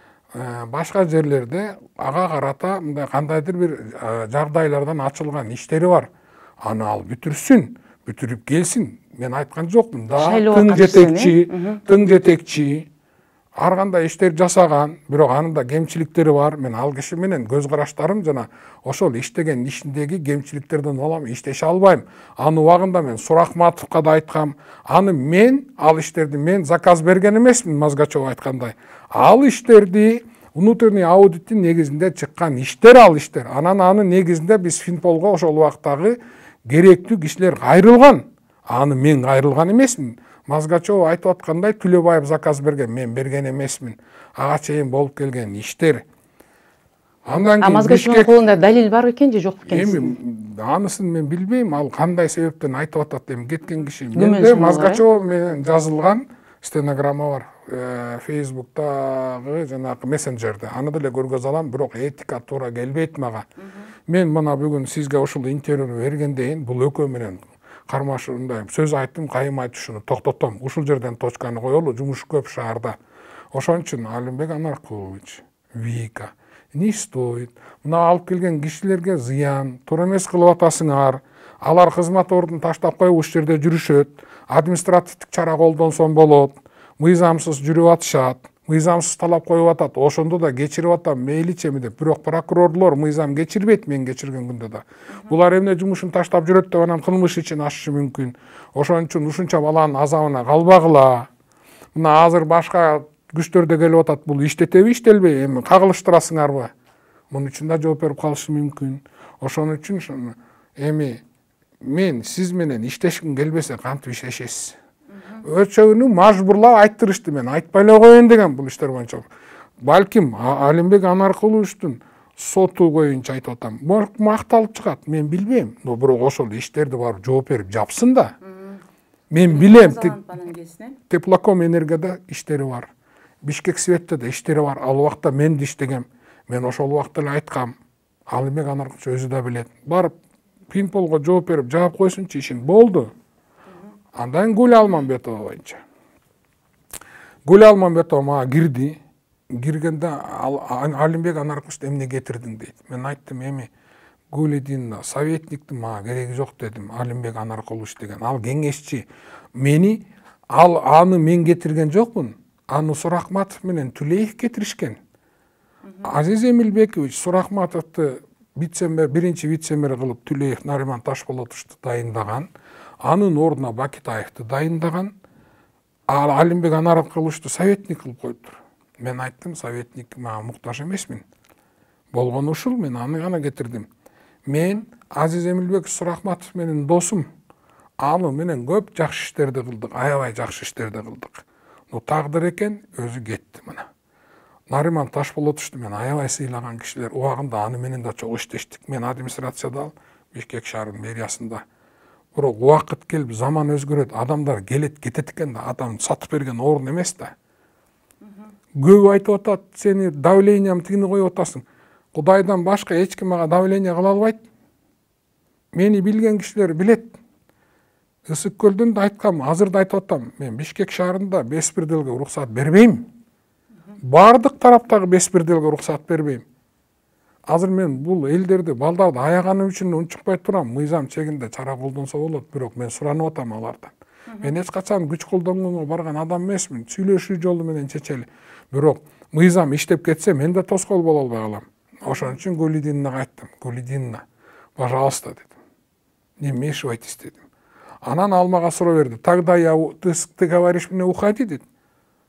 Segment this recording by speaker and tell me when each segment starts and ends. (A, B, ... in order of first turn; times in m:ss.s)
0:00.4-0:06.1 A
0:06.6-0:12.9 A
0:10.2-0:11.8 B
0:13.6-0:46.0 A
0:47.3-0:48.3 A
0:47.6-0:50.1 B
0:49.7-1:03.5 A
0:54.2-0:55.0 B
1:04.1-1:13.0 A
1:13.5-1:41.3 A
1:42.0-1:46.7 A
1:47.3-1:51.2 A
1:51.8-1:54.8 A
1:55.4-1:59.3 A
1:59.8-2:08.4 A
2:08.5-2:08.8 B
2:09.3-2:10.2 A
2:09.4-2:11.0 B
2:11.1-2:12.9 A
2:13.4-2:17.8 A
2:18.3-2:20.2 A
2:20.7-2:23.1 A
2:24.2-2:25.8 A
2:27.4-2:29.0 A
2:29.5-2:33.7 A
2:34.3-2:45.0 A
2:46.0-2:52.5 A
2:53.0-2:55.1 A
2:56.1-3:01.2 A
3:02.1-3:03.9 A
3:04.5-3:07.3 A
3:08.0-3:13.9 A
3:14.7-3:21.6 A
3:22.4-3:27.3 A
3:28.8-3:34.4 A
3:35.7-3:37.2 A
3:38.3-3:43.1 A
3:44.0-3:46.4 A
3:47.5-4:04.2 A
4:04.8-4:05.6 A
4:06.4-4:07.4 A
4:08.0-4:11.6 A